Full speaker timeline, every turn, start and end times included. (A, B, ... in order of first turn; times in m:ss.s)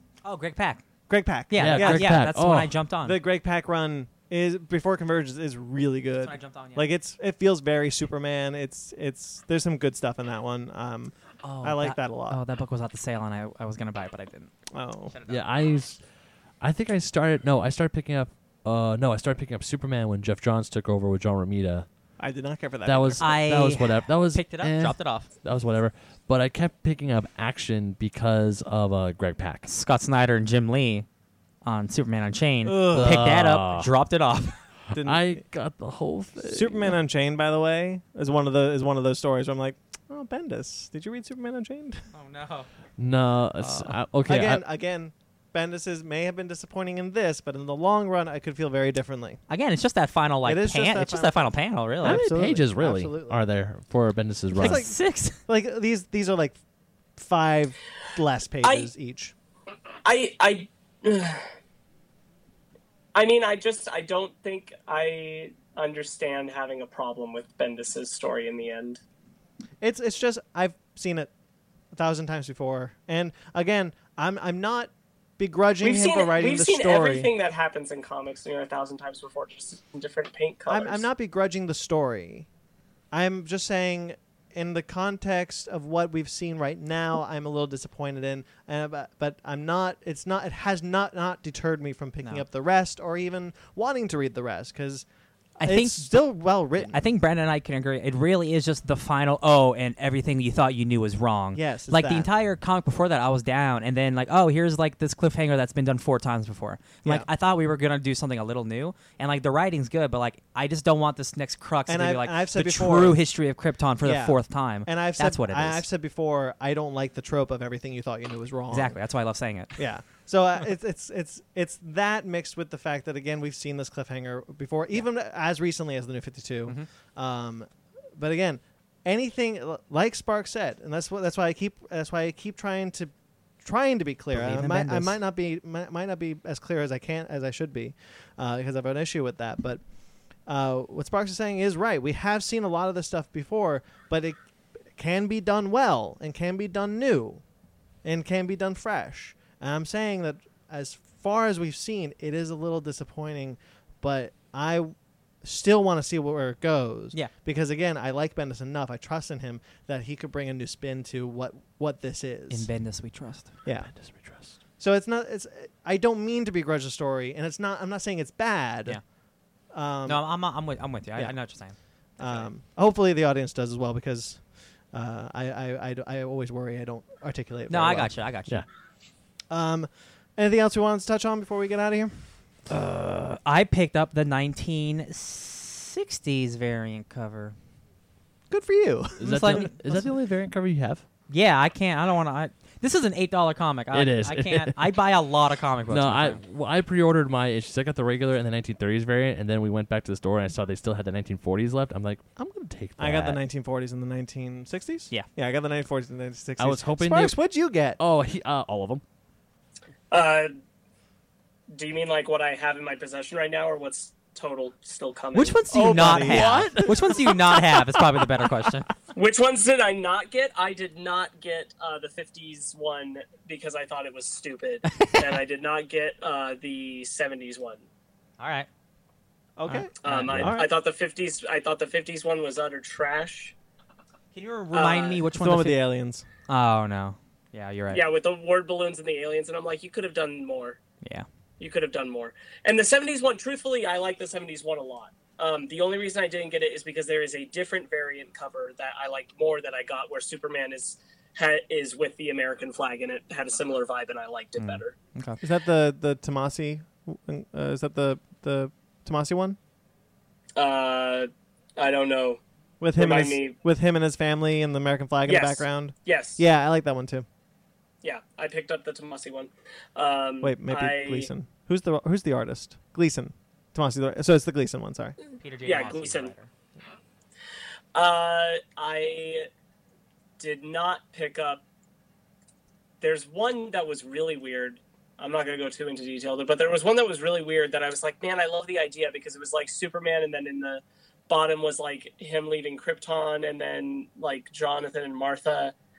0:00.2-0:00.8 A
0:01.1-0:02.3 B
0:01.5-0:03.2 A
0:01.6-0:02.8 C
0:03.0-0:12.4 B
0:06.2-0:06.9 A
0:11.4-0:14.5 A
0:14.7-0:15.2 B
0:15.1-0:15.5 A
0:15.3-0:16.0 C
0:16.6-0:21.9 C
0:22.2-0:23.4 B
0:22.8-0:29.7 C
0:23.2-0:25.3 A
0:29.7-0:31.1 A
0:31.6-0:34.6 A
0:32.6-0:33.4 B
0:32.9-0:33.9 C
0:34.9-0:37.0 C
0:34.9-0:35.4 B
0:36.4-0:42.1 B
0:42.1-0:42.7 A
0:43.0-0:44.6 C
0:44.2-0:49.4 B
0:49.5-0:52.3 A
0:50.4-0:53.4 B
0:52.0-0:54.8 C
0:54.6-0:55.4 A
0:54.6-0:56.6 B
0:57.2-0:59.3 B
0:58.6-0:58.9 D
1:00.0-1:01.5 D
1:03.2-1:09.0 D
1:09.8-1:11.3 B
1:11.9-1:17.3 B
1:15.8-1:21.1 D
1:20.7-1:22.5 B
1:23.1-1:35.1 B
1:35.6-1:36.2 A
1:35.6-1:37.0 B
1:36.8-1:55.8 A
1:41.5-1:42.3 B
1:51.9-1:53.2 B
1:54.0-1:59.0 B
1:58.7-1:59.8 A
1:59.8-2:19.8 B
2:14.3-2:15.2 A
2:20.5-2:24.4 B
2:25.0-2:27.4 B
2:28.0-2:42.7 B
2:42.5-2:43.5 A
2:43.7-2:43.9 B
2:43.9-2:44.5 C
2:44.8-2:49.0 B
2:49.7-2:50.3 B
2:50.1-2:52.5 A
2:51.2-2:51.4 B
2:52.2-2:58.2 B
2:57.7-2:58.6 A
2:59.5-3:02.3 B
3:02.7-3:07.6 A
3:08.5-3:10.1 B
3:09.2-3:11.0 C
3:09.2-3:09.7 A
3:11.3-3:16.4 A
3:13.9-3:15.0 C
3:15.9-3:23.4 C
3:23.0-3:28.0 B
3:26.6-3:27.4 C
3:28.0-3:29.0 C
3:30.1-3:30.5 D
3:31.7-3:36.2 D
3:35.4-3:38.9 A
3:35.7-3:36.9 B
3:36.3-3:37.6 C
3:39.1-3:47.8 D
3:44.9-3:45.3 A
3:48.4-3:48.7 A
3:49.6-3:50.7 B
3:49.7-3:50.4 A
3:50.0-3:53.5 D
3:50.3-3:50.6 C
3:54.3-3:55.8 A
3:54.7-3:56.3 B
3:54.8-3:55.2 D
3:56.5-3:58.0 A
3:57.9-4:00.8 D
4:01.6-4:15.0 D
4:14.6-4:15.4 A
4:15.4-4:19.6 B
4:20.6-4:22.4 D
4:22.8-4:27.3 B
4:23.0-4:23.6 D
4:25.3-4:26.4 D
4:28.0-4:31.3 D
4:30.4-4:35.2 B
4:35.4-4:36.5 A
4:35.6-4:36.3 D
4:37.9-4:39.5 D
4:40.4-4:41.6 D
4:43.0-4:55.7 D